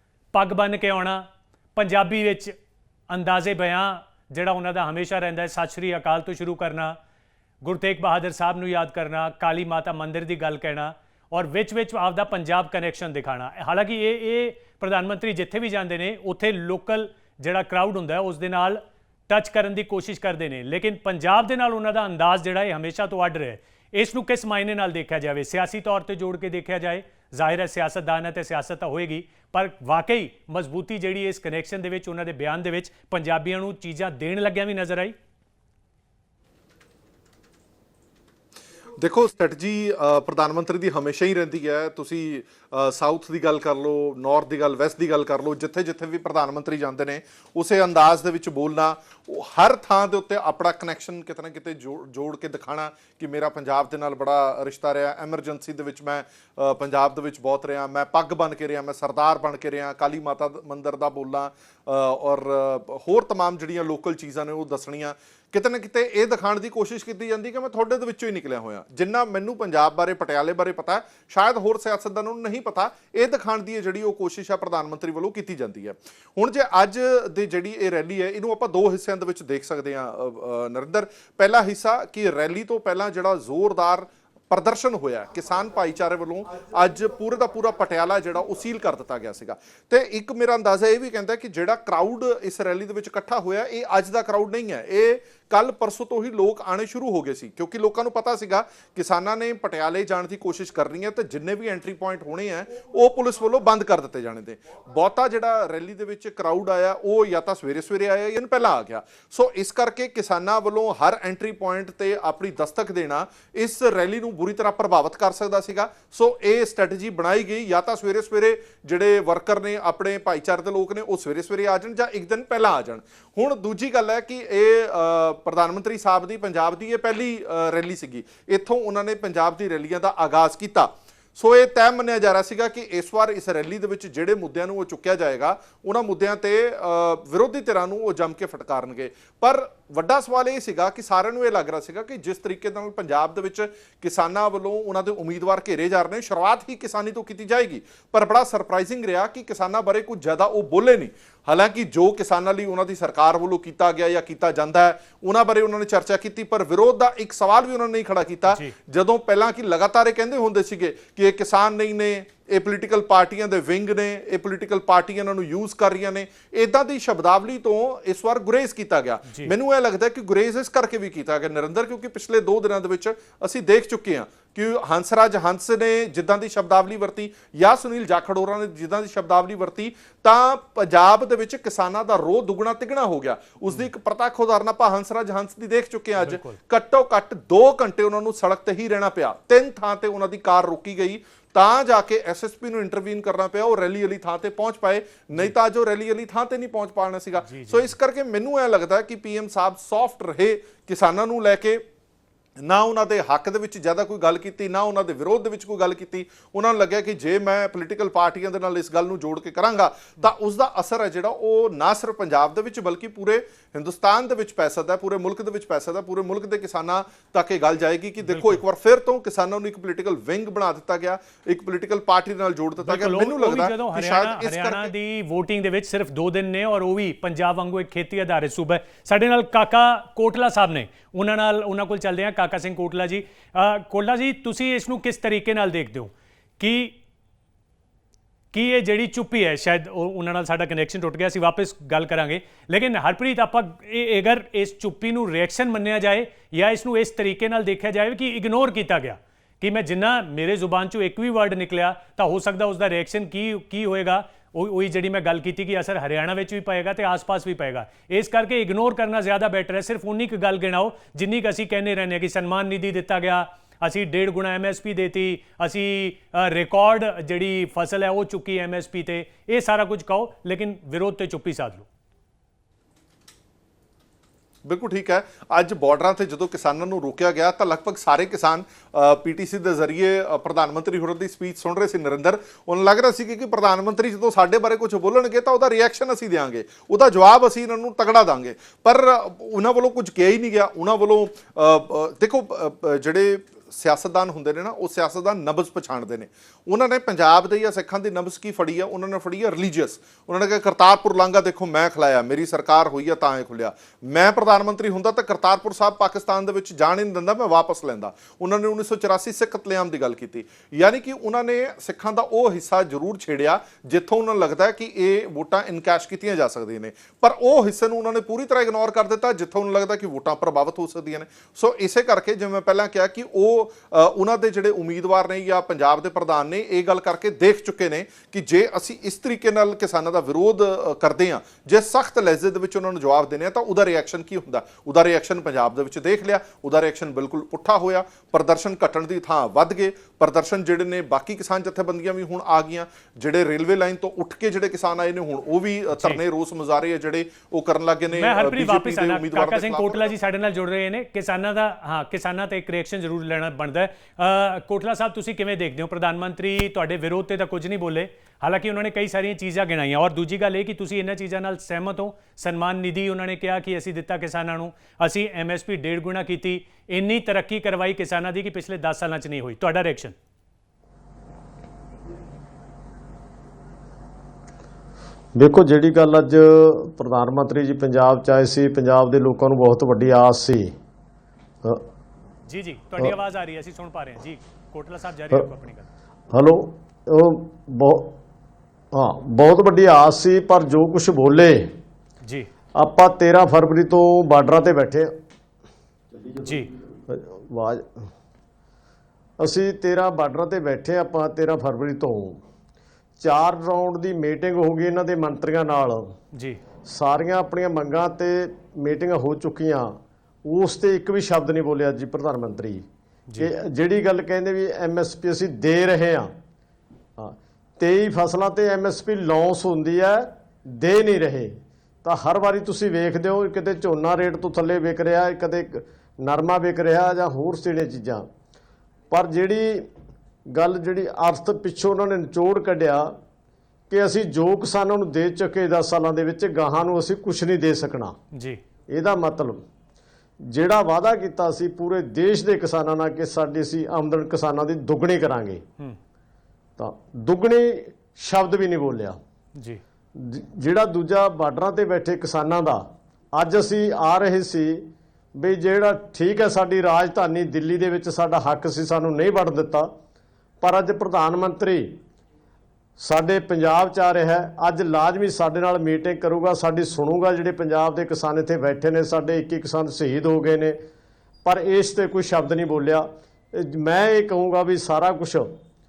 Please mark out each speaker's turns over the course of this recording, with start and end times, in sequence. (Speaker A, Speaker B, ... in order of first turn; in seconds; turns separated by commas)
Speaker A: 0.3-2.5, Speaker A: 3.1-7.0, Speaker A: 7.6-35.1, Speaker B: 39.0-201.8, Speaker A: 186.2-186.6, Speaker A: 197.4-197.9, Speaker B: 202.6-224.9, Speaker A: 218.3-218.6, Speaker A: 222.8-236.9, Speaker A: 238.5-271.9, Speaker B: 274.6-350.1, Speaker A: 346.0-346.2, Speaker A: 348.1-370.1, Speaker C: 375.4-380.7, Speaker A: 382.5-385.9, Speaker C: 386.3-388.1, Speaker C: 388.9-391.7, Speaker A: 392.2-392.5, Speaker C: 392.8-395.1, Speaker A: 396.4-396.7, Speaker C: 397.1-398.1, Speaker C: 399.4-402.4, Speaker C: 403.2-406.0, Speaker C: 406.9-409.9, Speaker C: 410.4-412.8, Speaker C: 413.4-416.3, Speaker C: 417.2-421.5, Speaker C: 422.0-428.3, Speaker C: 429.1-429.9, Speaker C: 430.6-433.1, Speaker C: 433.9-438.1, Speaker A: 438.3-438.6, Speaker C: 438.9-439.6, Speaker C: 440.5-445.6, Speaker C: 446.8-449.2, Speaker A: 449.6-449.8, Speaker C: 450.2-452.8, Speaker C: 453.4-459.9, Speaker C: 460.6-462.0, Speaker C: 463.0-470.8, Speaker C: 471.4-475.5